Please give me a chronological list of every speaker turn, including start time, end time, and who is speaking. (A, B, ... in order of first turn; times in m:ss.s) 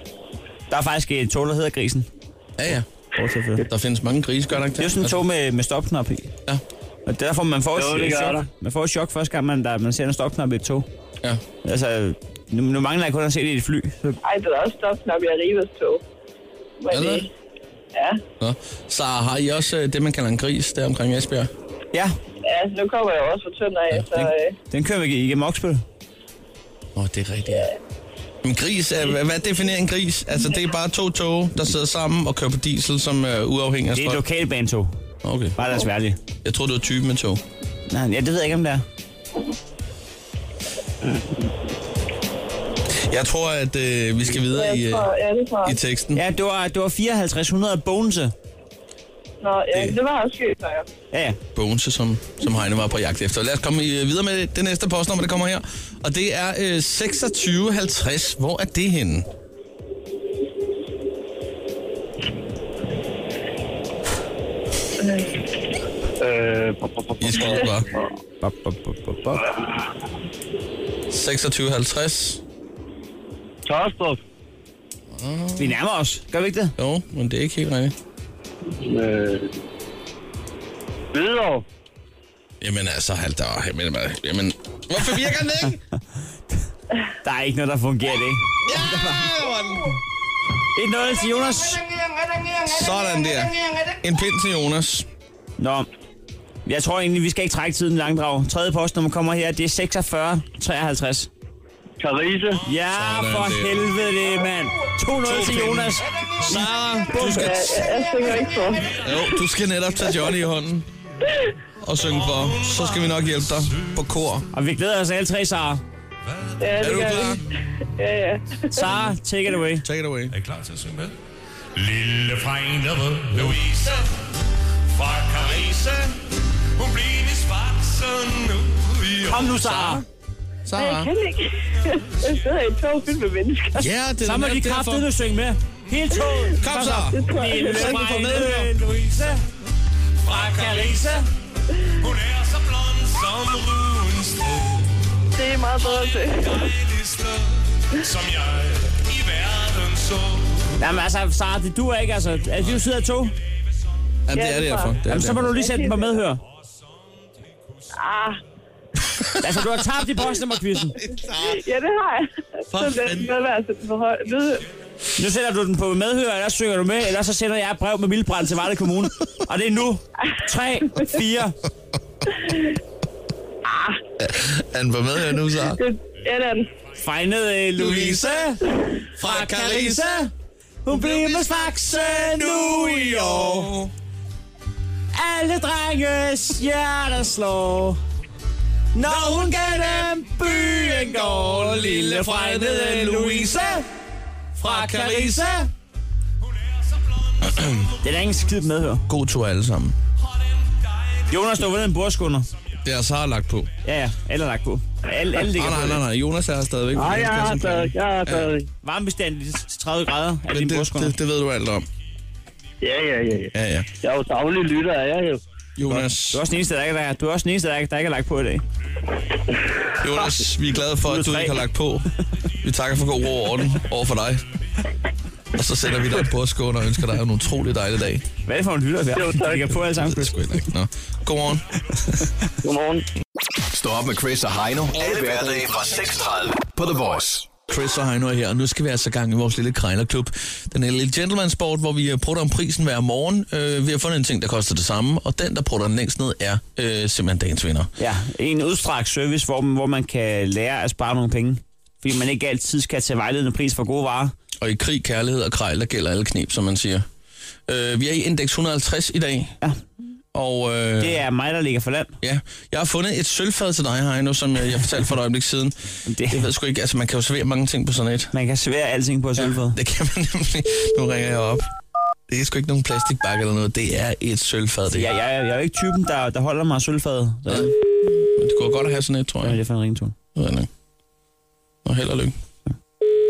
0:00.7-0:02.1 A
0:02.6-0:02.9 B
0:03.2-0:03.6 A
0:03.6-0:05.2 B
0:04.8-0:06.3 A
0:07.1-0:10.9 A
0:07.8-0:08.5 C
0:11.6-0:14.2 A
0:14.2-0:16.0 D
0:16.8-0:17.2 D
0:16.9-0:17.3 B
0:17.9-0:18.2 D
0:18.4-0:21.5 B
0:22.5-0:24.5 D
0:24.2-0:25.8 A
0:27.0-0:27.7 B
0:28.4-0:34.2 B
0:33.9-0:34.9 A
0:35.2-0:35.6 B
0:35.6-0:36.2 A
0:36.4-0:37.4 B
0:37.9-0:38.8 A
0:43.1-0:46.2 B
0:44.5-0:45.8 D
0:46.2-0:48.3 A
0:49.4-0:50.9 D
0:49.7-0:50.0 B
0:51.1-0:51.4 A
0:51.6-0:59.3 B
1:06.2-1:08.0 C
1:07.2-1:07.9 B
1:08.4-1:09.4 A
1:09.4-1:09.8 C
1:11.1-1:12.4 B
1:13.7-1:14.2 C
1:15.1-1:15.8 B
1:15.6-1:16.7 A
1:16.8-1:17.9 B
1:18.8-1:19.6 C
1:21.1-1:21.6 C
1:22.6-1:25.8 B
1:27.2-1:29.3 A
1:28.7-1:30.0 B
1:30.8-1:31.8 A
1:32.6-1:35.1 B
1:35.6-1:35.9 A
1:36.7-1:41.3 A
1:42.0-1:42.6 C
1:42.6-1:47.6 A
1:42.8-1:43.9 B
1:45.2-1:47.9 B
1:47.3-1:49.0 D
1:49.0-1:50.9 B
1:51.8-1:54.5 B
1:52.2-1:54.0 E
1:54.5-1:55.8 A
1:56.6-1:57.4 D
1:56.8-1:57.4 B
1:58.0-1:58.6 D
1:58.7-1:59.8 A
1:59.8-2:00.3 B
2:00.3-2:01.2 E
2:01.8-2:04.1 E
2:05.0-2:06.2 E
2:06.8-2:09.7 E
2:09.3-2:10.0 A
2:09.6-2:10.0 B
2:10.7-2:11.1 B
2:10.8-2:13.9 D
2:13.8-2:15.1 B
2:14.2-2:19.4 A
2:16.6-2:18.7 B
2:17.1-2:17.9 D
2:18.9-2:19.3 E
2:20.2-2:21.2 E
2:20.3-2:21.2 A
2:22.0-2:30.7 E
2:25.4-2:26.3 D
2:30.8-2:33.3 A
2:34.3-2:35.6 B
2:34.3-2:36.2 D
2:35.0-2:36.4 A
2:38.0-2:38.4 D
2:39.4-2:41.0 A
2:41.0-2:41.6 B
2:41.4-2:44.6 D
2:42.7-2:43.3 B
2:45.2-2:51.6 A
2:53.7-2:54.0 D
2:54.2-2:55.8 B
2:55.7-2:56.7 D
2:57.0-2:58.6 A
2:57.8-2:58.6 B
2:59.2-3:00.1 B
2:59.2-3:00.3 A
3:00.8-3:03.7 A
3:00.9-3:03.9 B
3:05.1-3:08.0 A
3:09.0-3:13.8 A
3:09.1-3:13.8 B
3:14.6-3:15.6 B
3:14.6-3:15.7 A
3:18.0-3:19.0 A
3:19.1-3:20.0 B
3:21.3-3:22.5 A
3:22.8-3:23.7 B
3:23.8-3:26.0 A
3:25.4-3:28.5 B
3:27.0-3:28.7 C
3:28.8-3:31.1 A
3:30.5-3:31.9 B
3:32.8-3:35.4 C
3:33.5-3:33.9 B
3:35.8-3:36.4 B
3:35.8-3:38.6 A
3:40.0-3:42.1 B
3:41.1-3:41.6 A
3:42.6-3:44.4 B
3:45.6-3:48.3 B
3:48.4-3:50.4 A
3:49.2-3:49.7 C
3:50.0-3:52.2 B
3:52.6-3:53.1 C
3:53.7-3:57.6 F
3:57.7-4:07.9 B
4:08.0-4:14.3 A
4:14.6-4:17.1 B
4:17.7-4:19.6 B
4:20.3-4:21.2 B
4:21.0-4:22.1 A
4:22.2-4:25.8 B
4:26.1-4:26.5 A
4:26.3-4:28.3 B
4:28.3-4:29.8 A
4:29.4-4:31.7 B
4:32.3-4:35.1 B
4:34.9-4:37.7 A
4:37.5-4:39.6 B
4:39.4-4:40.2 A
4:40.4-4:40.7 B
4:41.8-4:42.4 B